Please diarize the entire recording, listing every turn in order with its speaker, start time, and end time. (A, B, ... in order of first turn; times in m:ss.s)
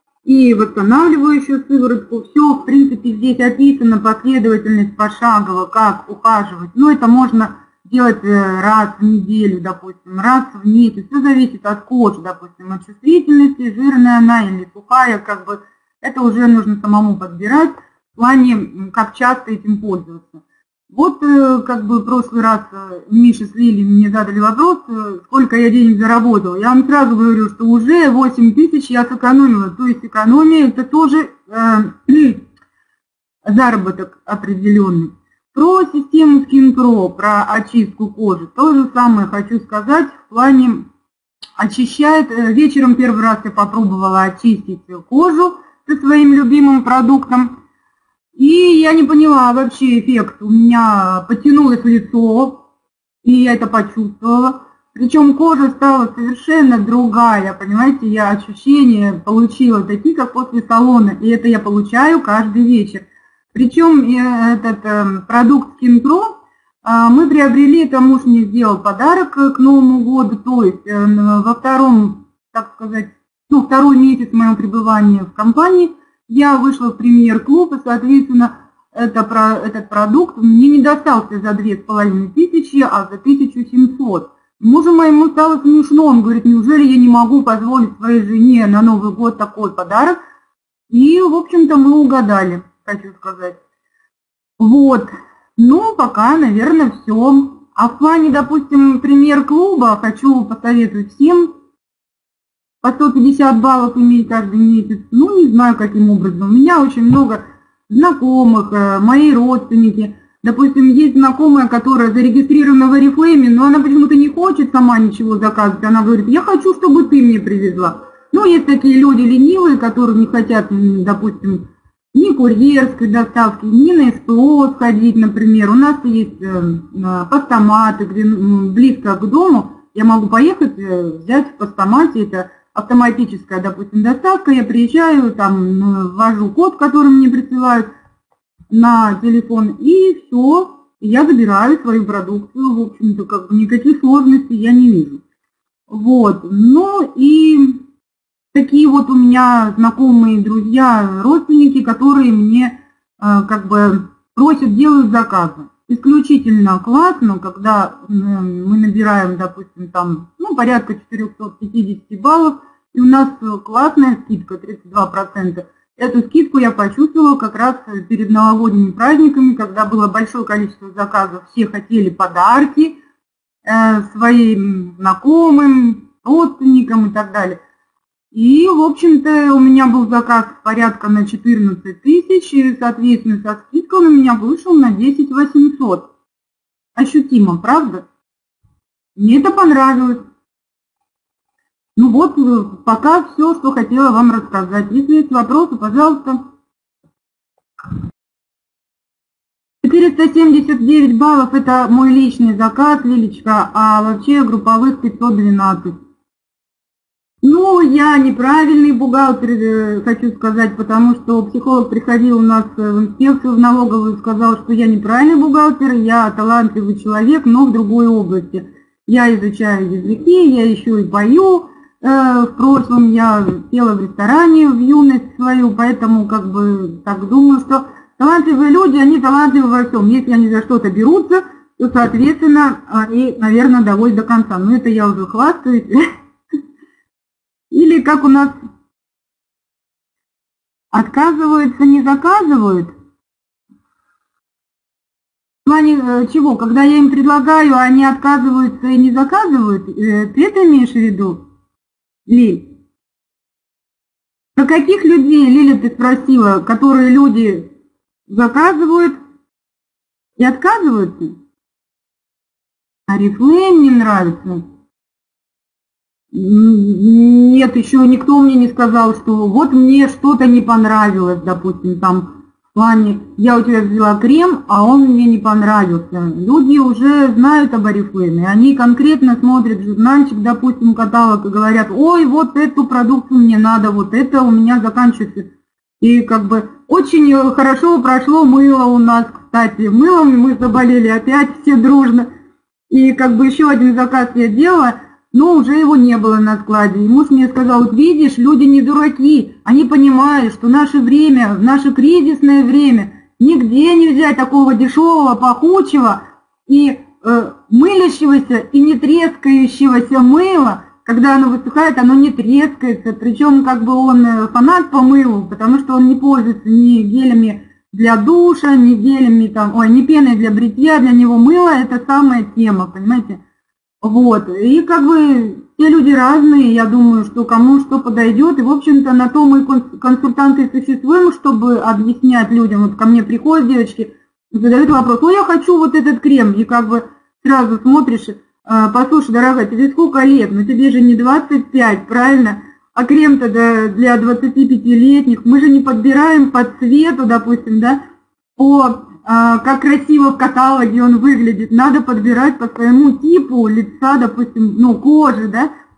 0:00.2-0:32.4 A
0:33.4-0:40.9 A
0:41.6-0:47.6 A
0:48.4-0:52.6 A
0:53.2-1:30.2 A
1:30.9-1:33.6 A
1:34.6-1:41.6 A
1:42.8-2:17.9 A
2:18.7-2:25.2 A
2:25.9-2:27.8 A
2:28.5-2:53.0 A
2:53.6-2:57.6 A
2:58.3-3:06.1 A
3:07.0-3:08.0 A
3:09.2-3:10.2 A
3:12.0-3:16.4 A
3:19.8-3:26.0 A
3:27.4-3:56.1 A
3:57.7-3:58.6 A
4:00.9-4:02.9 A
4:05.6-4:11.4 A
4:12.3-4:12.7 A
4:14.6-4:17.7 A
4:18.3-4:19.2 A
4:20.4-4:21.4 A
4:23.1-4:24.6 A
4:26.3-4:52.3 A
4:52.9-5:23.4 A
5:24.0-5:48.0 A
5:48.6-5:55.7 A